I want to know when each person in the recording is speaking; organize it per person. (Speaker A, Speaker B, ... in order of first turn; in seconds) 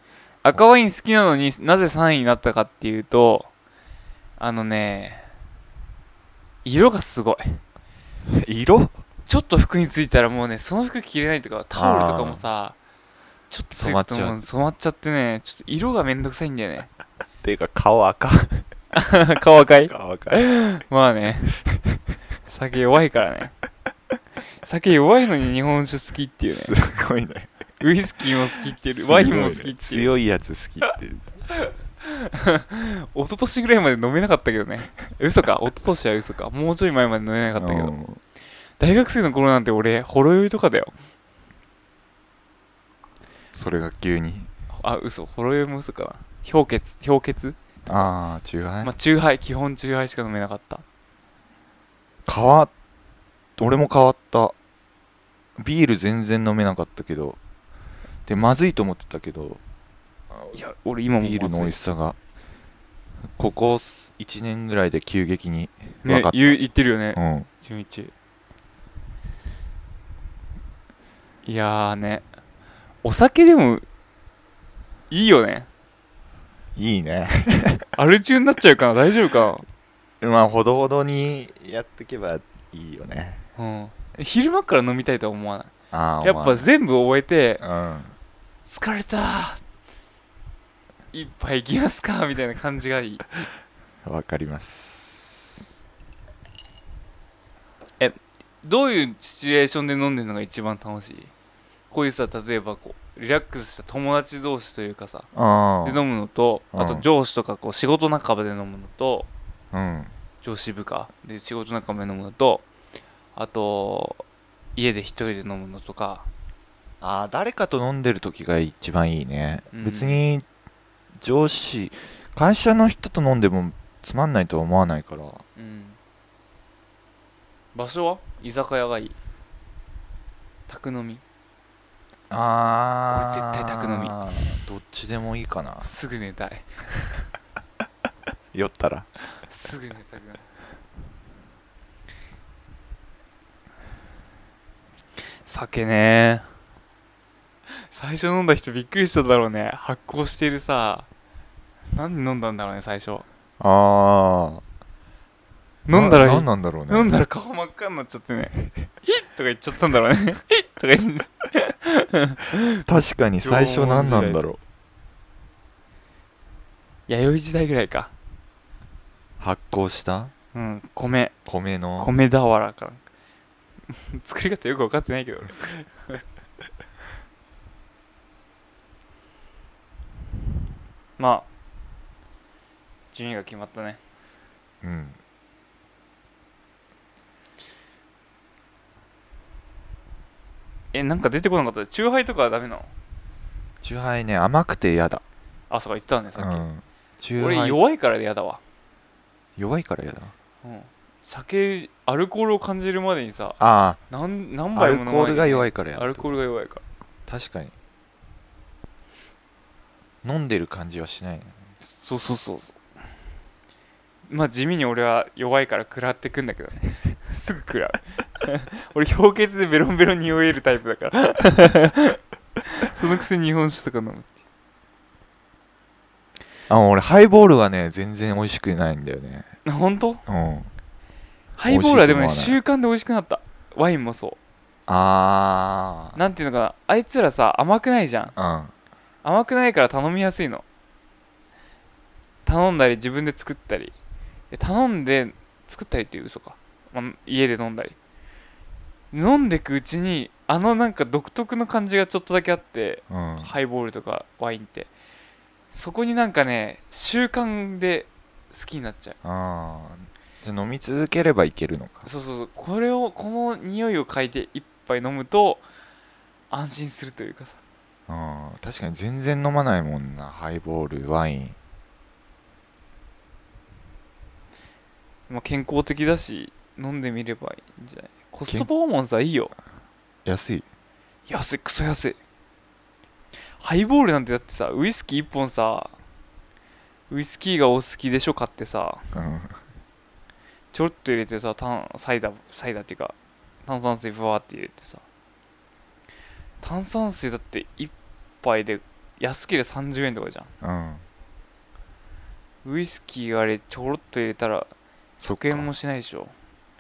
Speaker A: 0.4-3.5, 4.4-5.3, 6.6-7.6, 9.2-12.8, 13.5-16.9, 18.9-21.6, 22.4-23.5, 24.6-26.7, 27.8-30.1, 31.5-37.9, 38.8-40.9, 44.8-47.6, 48.8-50.8, 60.5-61.7, 66.0-68.1, 71.5-72.2, 73.0-73.8, 75.1-75.7, 78.0-79.6, 83.6-85.7, 86.2-87.6, 88.7-89.6, 91.1-93.5, 98.0-101.3, 101.9-105.3, 105.8-109.3, 110.4-112.6, 113.3-114.2, 114.8-116.3, 119.7-120.2, 125.6-126.0, 127.7-129.2, 130.7-131.2, 133.1-134.2, 135.8-136.7, 139.5-140.4, 145.4-146.4, 147.7-151.1, 151.9-153.2, 155.8-162.8, 163.4-164.4, 167.1-168.1, 170.5-171.3, 172.0-173.0, 173.9-176.2, 181.2-181.4, 183.1-184.0, 190.9-192.9, 195.7-196.7, 197.4-198.6, 200.6-203.6, 204.1-206.8, 211.8-212.8, 214.3-222.2, 222.8-224.3, 229.6-230.2, 231.6-234.4, 236.1-238.3, 239.2-240.6, 242.4-243.9, 244.5-248.0, 249.1-254.9, 255.7-259.1, 262.1-265.6, 266.5-267.6, 275.3-279.5, 281.3-282.2, 283.6-285.9, 287.1-289.1, 290.7-295.0, 296.6-300.5, 302.6-306.3
Speaker B: 8.2-8.9, 11.7-12.4, 13.7-14.4, 17.4-18.6, 19.8-20.5, 26.5-27.5, 28.9-31.3, 37.5-38.2, 43.5-44.5, 47.9-48.9, 52.2-52.7, 53.6-54.5, 55.6-57.4, 58.3-59.6, 61.2-62.2, 63.4-66.5, 67.1-67.5, 76.8-77.8, 80.2-83.4, 85.9-86.7, 87.6-88.1, 94.0-95.6, 105.3-106.0, 106.7-107.0, 109.7-110.1, 117.0-120.4, 121.2-125.4, 132.3-135.8, 138.5-139.1, 153.6-154.6, 155.9-157.1, 162.8-164.6, 169.4-170.3, 171.4-172.1, 184.8-185.2, 193.8-195.2, 196.3-197.8, 199.6-200.3, 203.6-204.0, 204.7-206.4, 207.3-207.7, 210.2-211.6, 226.7-229.5, 230.3-230.7, 231.7-232.6, 234.9-236.2, 238.3-238.7, 253.1-253.5, 259.2-262.1, 268.1-271.6, 280.2-280.6, 289.1-289.6, 300.6-301.0, 305.2-305.7